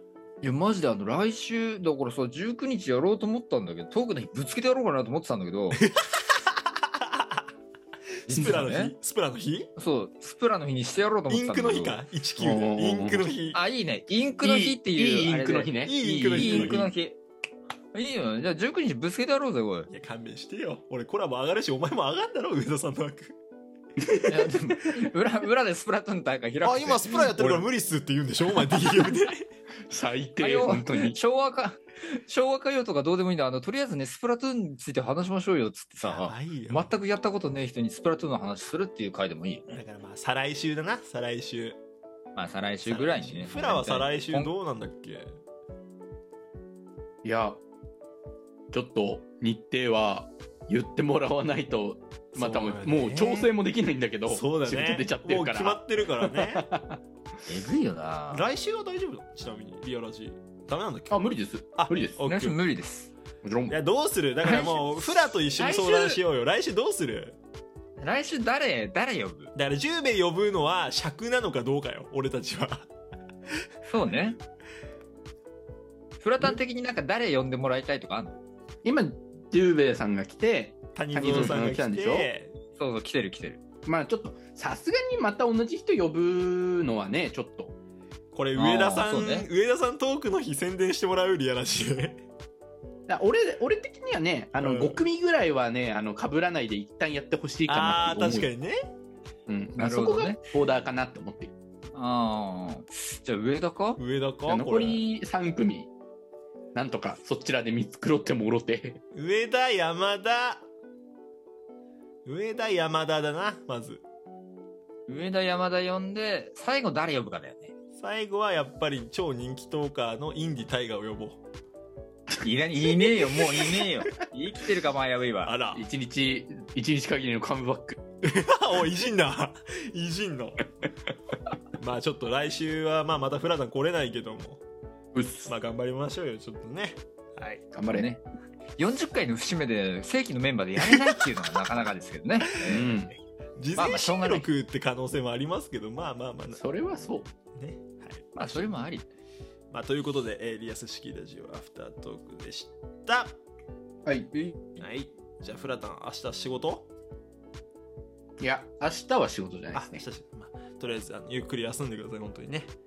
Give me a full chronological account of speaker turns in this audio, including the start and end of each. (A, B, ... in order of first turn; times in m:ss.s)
0:00.4-0:05.8 A
0:05.8-0:07.4 B
0:08.3-0:08.9 A
0:08.3-0:09.7 B
0:09.8-0:12.0 A
0:11.3-0:13.6 B
0:12.4-0:13.3 C
0:13.5-0:17.2 A
0:14.4-0:16.9 C
0:15.8-0:16.9 B
0:17.9-0:19.9 A
0:19.9-0:23.3 B
0:24.2-0:27.7 A
0:26.6-0:29.5 B
0:29.9-0:31.2 C
0:30.4-0:39.8 A
0:36.0-0:36.9 B
0:39.7-0:41.8 B
0:42.4-0:44.5 A
0:42.8-0:45.4 B
0:47.2-0:47.6 C
0:48.7-0:57.0 C
0:52.3-0:53.5 B
0:54.3-0:56.6 B
0:57.4-0:58.5 A
0:58.3-1:01.2 B
1:01.1-1:02.2 C
1:01.7-1:02.6 B
1:02.2-1:03.1 A
1:03.4-1:03.8 C
1:03.7-1:07.4 B
1:04.4-1:06.2 A
1:08.0-1:09.5 A
1:09.5-1:12.9 B
1:13.9-1:14.4 A
1:16.2-1:18.4 A
1:18.8-1:22.3 C
1:20.9-1:22.5 B
1:22.8-1:23.6 A
1:23.8-1:27.7 C
1:28.3-1:32.2 B
1:28.6-1:29.5 A
1:33.1-1:38.5 C
1:34.6-1:35.0 B
1:37.7-1:38.8 B
1:39.5-1:41.5 C
1:39.8-1:40.4 A
1:42.0-1:44.0 A
1:44.0-1:45.0 B
1:44.5-1:45.9 C
1:46.7-1:49.0 C
1:49.1-1:50.6 B
1:52.2-1:54.0 B
1:55.1-1:57.7 A
1:58.0-2:01.4 B
2:02.3-2:05.5 A
2:05.4-2:05.8 B
2:05.7-2:08.0 C
2:08.2-2:10.6 B
2:11.7-2:14.6 B
2:15.1-2:15.5 C
2:15.4-2:17.7 B
2:17.7-2:18.1 C
2:17.9-2:18.2 A
2:18.8-2:23.0 A
2:22.6-2:23.2 C
2:23.6-2:26.6 B
2:23.7-2:24.5 A
2:26.5-2:27.3 C
2:27.5-2:28.7 B
2:28.3-2:29.0 A
2:29.7-2:33.4 B
2:34.0-2:34.5 C
2:34.8-2:36.9 B
2:38.4-2:40.0 C
2:39.7-2:42.7 B